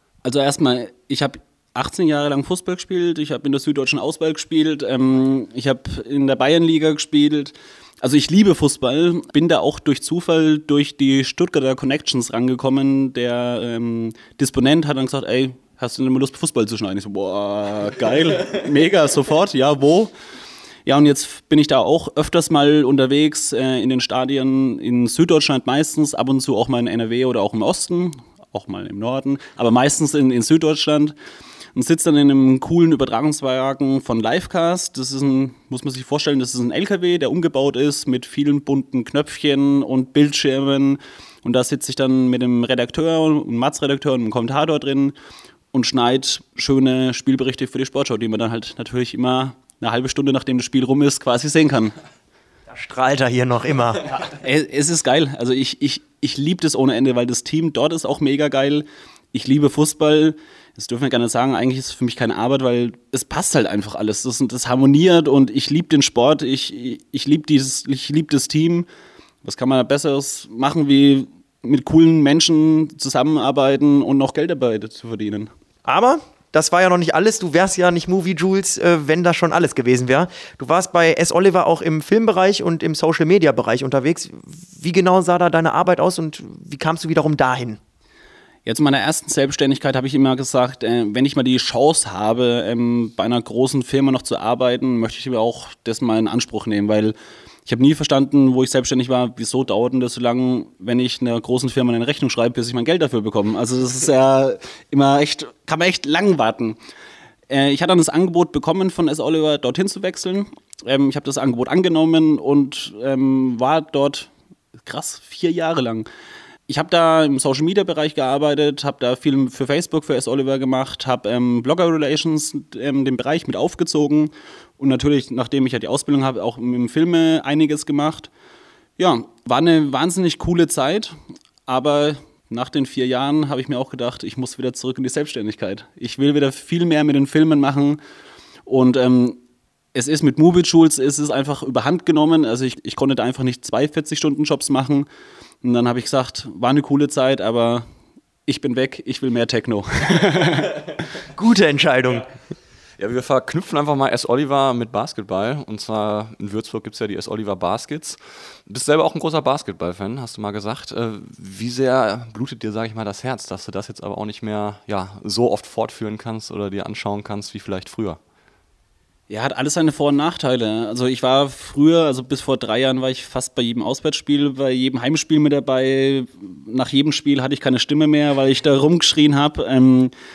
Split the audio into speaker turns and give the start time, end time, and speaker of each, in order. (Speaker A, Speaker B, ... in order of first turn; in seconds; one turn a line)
Speaker A: 0.2-20.1
Speaker A: 20.9-31.1
Speaker A: 31.7-45.1
Speaker A: 45.7-51.9
Speaker B: 52.7-54.1
Speaker A: 54.2-68.9
Speaker A: 69.4-75.5
Speaker B: 75.8-87.8
Speaker A: 88.7-97.1
Speaker A: 97.7-106.8
Speaker A: 107.5-114.3
Speaker A: 114.8-116.1
Speaker A: 116.7-128.3
Speaker A: 129.0-131.2
Speaker A: 131.7-138.0
Speaker A: 138.7-139.4
Speaker A: 139.9-145.1
Speaker A: 145.6-147.8
Speaker A: 148.4-150.9
Speaker B: 151.3-152.3
Speaker C: 153.0-168.2
Speaker A: 169.3-180.1